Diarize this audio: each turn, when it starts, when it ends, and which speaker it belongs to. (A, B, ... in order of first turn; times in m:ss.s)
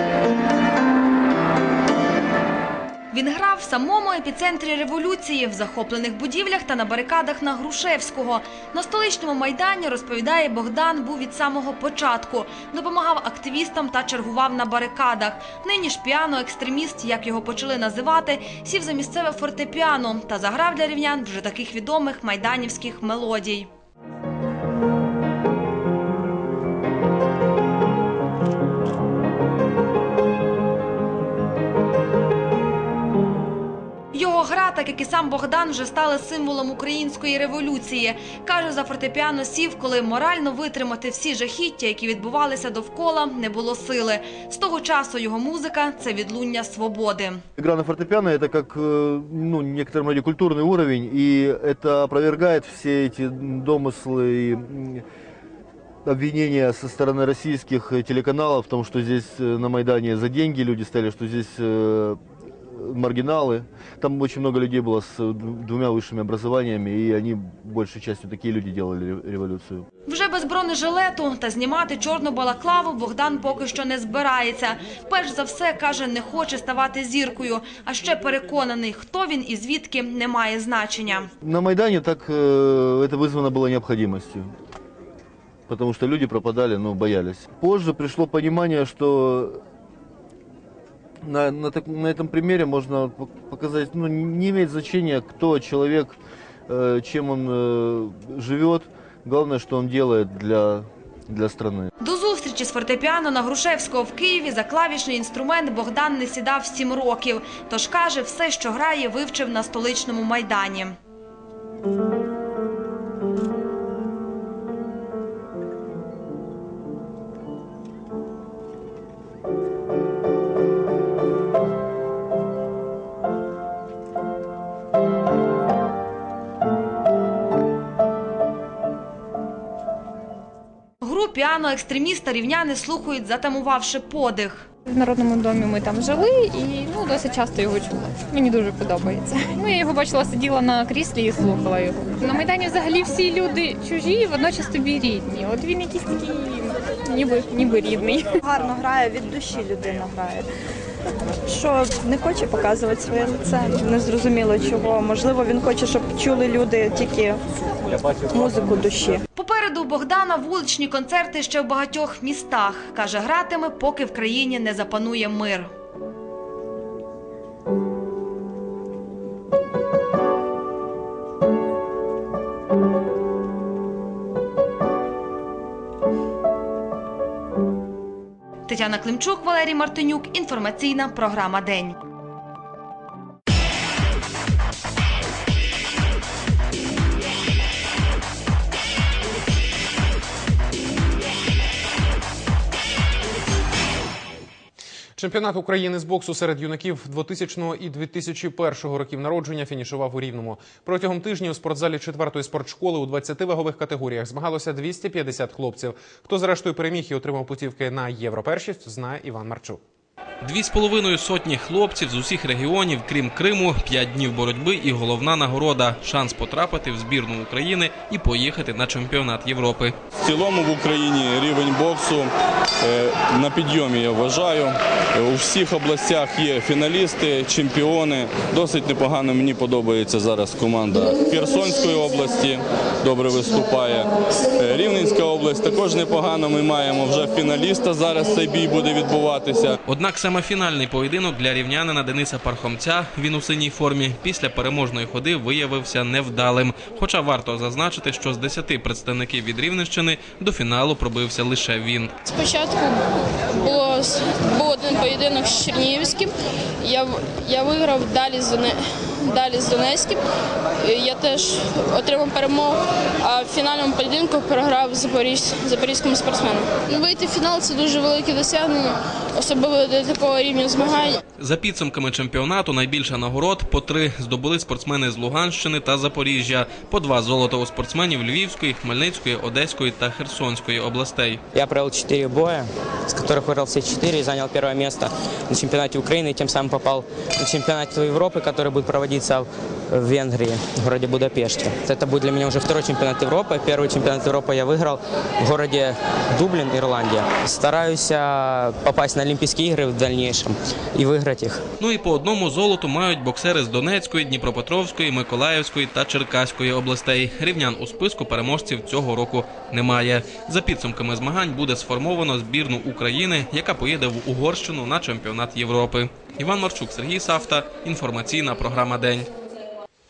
0:03.1-0:23.7 A
0:34.1-0:47.4 A
0:47.6-0:55.0 B
0:56.1-1:02.2 B
1:02.7-1:09.9 B
1:10.1-1:21.3 A
1:21.4-1:24.5 B
1:25.7-1:29.6 B
1:31.2-1:36.2 B
1:36.7-1:41.9 B
1:42.0-1:51.0 A
2:11.0-2:14.7 A
2:14.9-2:28.2 C
2:28.5-2:30.5 D
2:31.5-2:37.4 D
2:38.3-2:39.2 D
2:39.4-2:45.7 A
2:58.7-3:02.0 A
3:15.2-3:29.8 E
3:30.4-3:40.0 F
3:40.2-3:42.3 G
3:42.8-3:59.8 G
3:59.8-4:12.1 F
4:12.3-4:20.2 H
4:20.8-4:31.2 H
4:31.4-4:41.4 F
4:41.5-5:01.6 I
5:01.8-5:19.3 F